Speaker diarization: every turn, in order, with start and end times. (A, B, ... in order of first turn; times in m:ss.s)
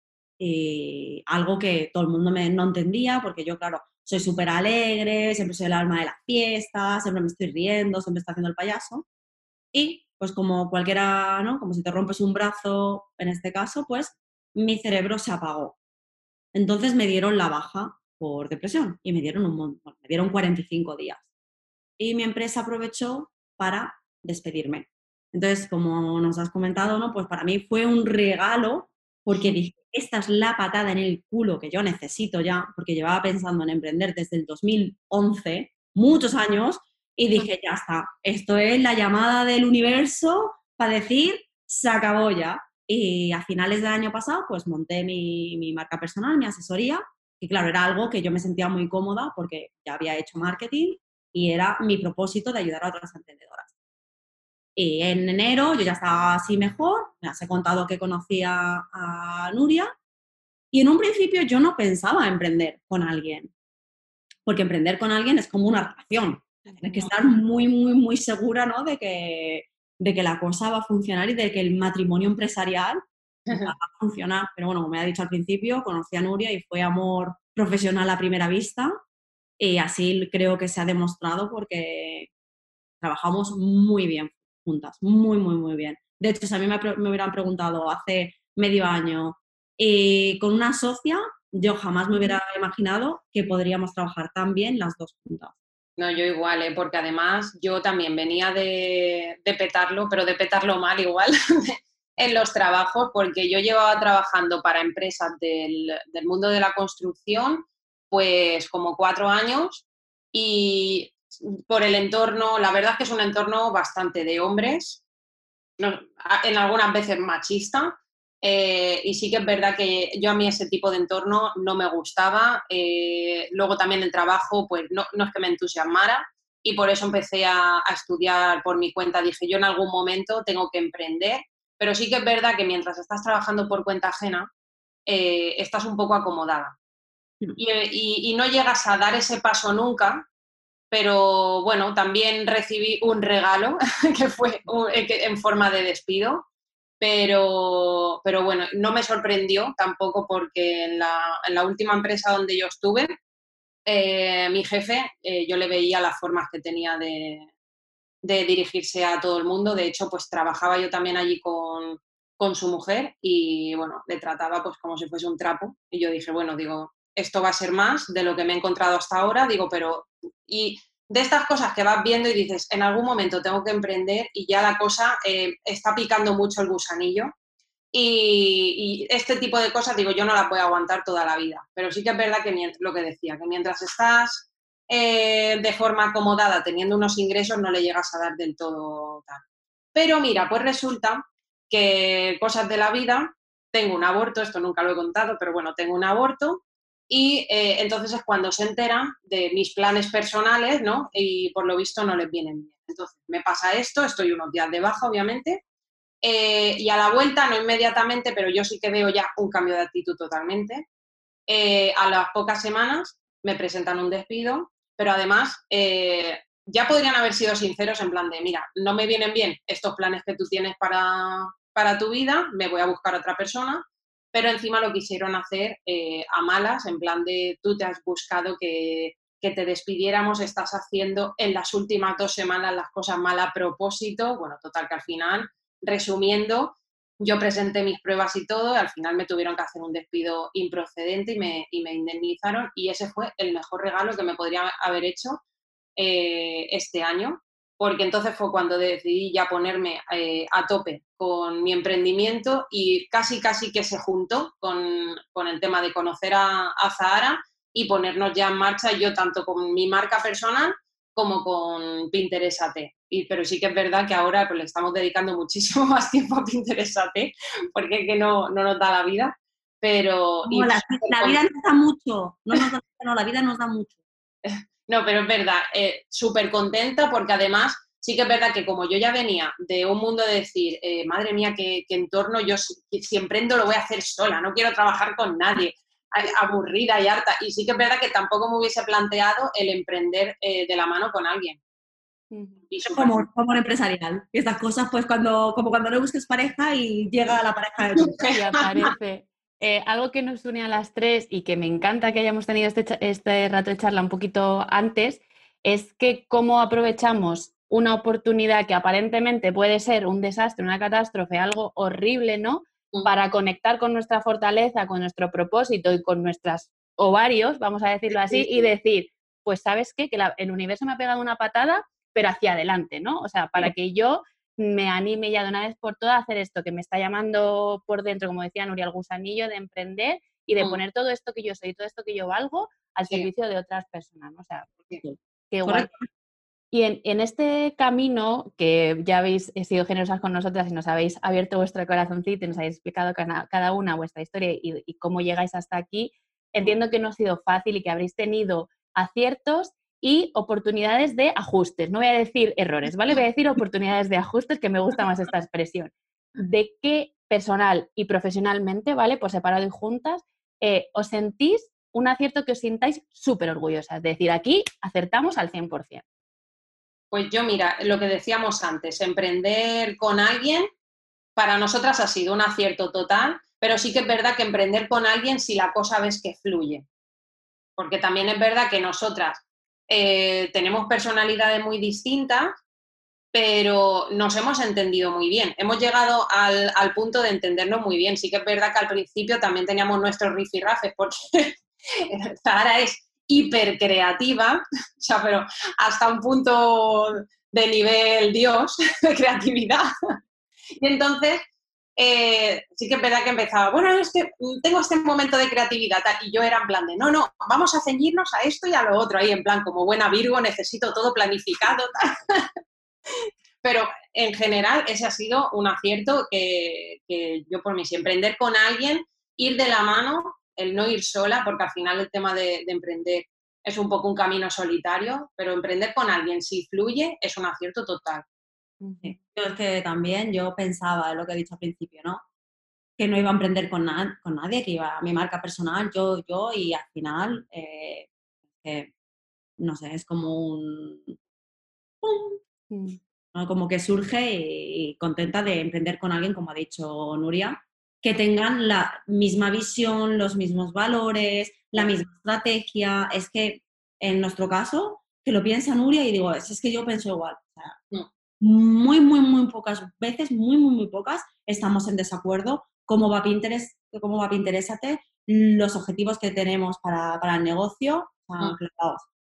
0:00.4-0:09.0 A
0:09.7-0:15.8 A
0:16.5-0:21.2 A
0:22.0-0:53.7 A
0:54.8-0:59.9 A
1:00.7-1:03.5 A
1:04.4-1:13.0 A
1:13.5-1:19.0 A
1:19.6-1:22.3 A
1:23.0-1:35.5 A
1:36.0-1:55.0 B
1:55.8-2:14.5 B
2:15.1-2:16.8 B
2:17.6-2:20.3 B
2:20.9-2:26.4 B
2:27.0-2:33.2 B
2:33.8-2:37.5 B
2:38.2-2:57.3 B
2:57.9-3:09.4 B
3:09.9-3:25.6 B
3:26.2-3:30.8 B
3:31.5-4:05.4 B
4:06.0-4:31.4 B
4:30.4-4:34.0 A
4:34.4-4:51.6 B
4:52.3-4:52.6 C
4:52.7-4:53.2 B
4:52.8-4:58.2 A
4:58.0-4:58.9 B
4:58.2-5:34.7 C
5:18.1-5:18.7 B
5:35.0-5:36.1 A
5:35.5-5:35.9 C
5:36.7-6:06.0 C
6:07.1-6:10.7 B
6:11.4-6:16.8 B
6:17.8-6:22.6 B
6:23.3-6:39.9 B
6:40.8-6:41.4 B
6:42.0-6:52.5 B
6:53.6-7:08.2 B
7:08.8-7:09.2 C
7:09.0-7:12.2 A
7:13.0-7:18.1 A
7:18.6-7:18.9 A
7:19.6-7:21.2 A
7:22.0-7:22.4 A
7:22.7-7:23.0 C
7:23.3-7:37.8 A
7:38.4-7:49.1 A